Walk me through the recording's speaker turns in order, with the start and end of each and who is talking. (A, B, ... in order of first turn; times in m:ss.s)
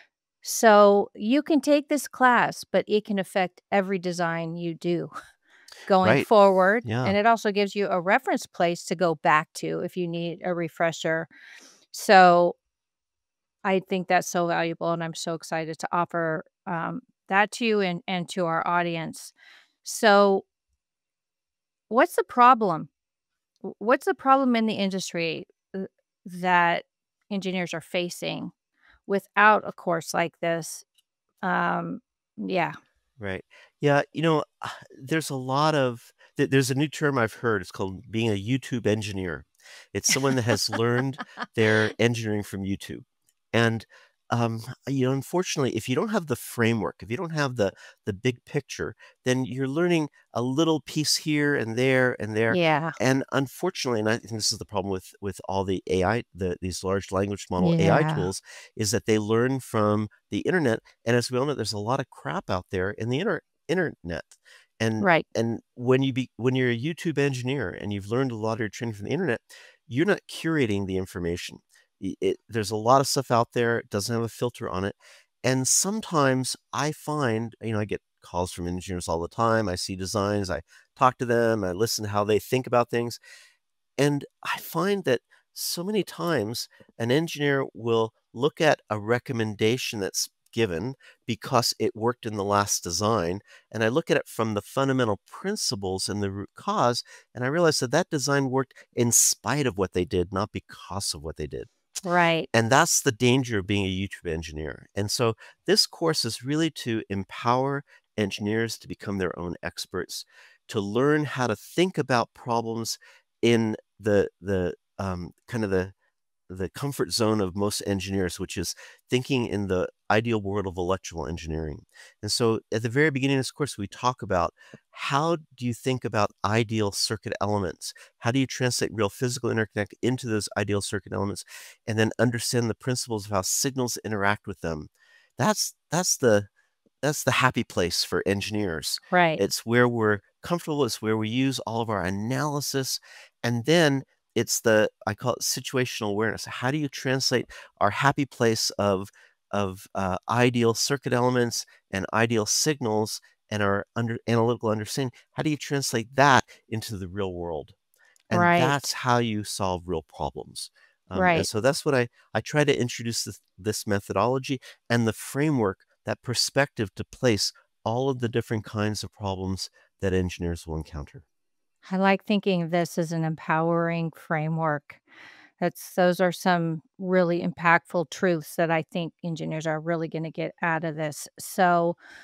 0:00.4-0:05.1 A
0:05.8-0:11.3 A
0:06.0-0:06.3 B
0:06.8-0:07.2 B
0:11.9-0:12.6 A
0:13.6-0:20.4 A
0:21.9-0:22.9 A
0:23.6-0:28.5 A
0:29.1-0:30.8 A
0:31.4-0:32.7 A
0:33.2-1:23.2 B
0:52.5-0:53.0 A
0:57.6-0:58.3 A
1:05.0-1:05.2 A
1:24.0-1:41.7 B
1:42.0-1:42.5 A
1:42.5-1:55.9 B
1:56.5-2:16.5 B
2:17.0-2:37.8 B
2:19.1-2:19.4 A
2:38.3-2:51.2 B
2:38.3-2:38.9 A
2:41.1-2:41.5 A
2:51.8-2:55.0 A
2:55.6-3:02.0 A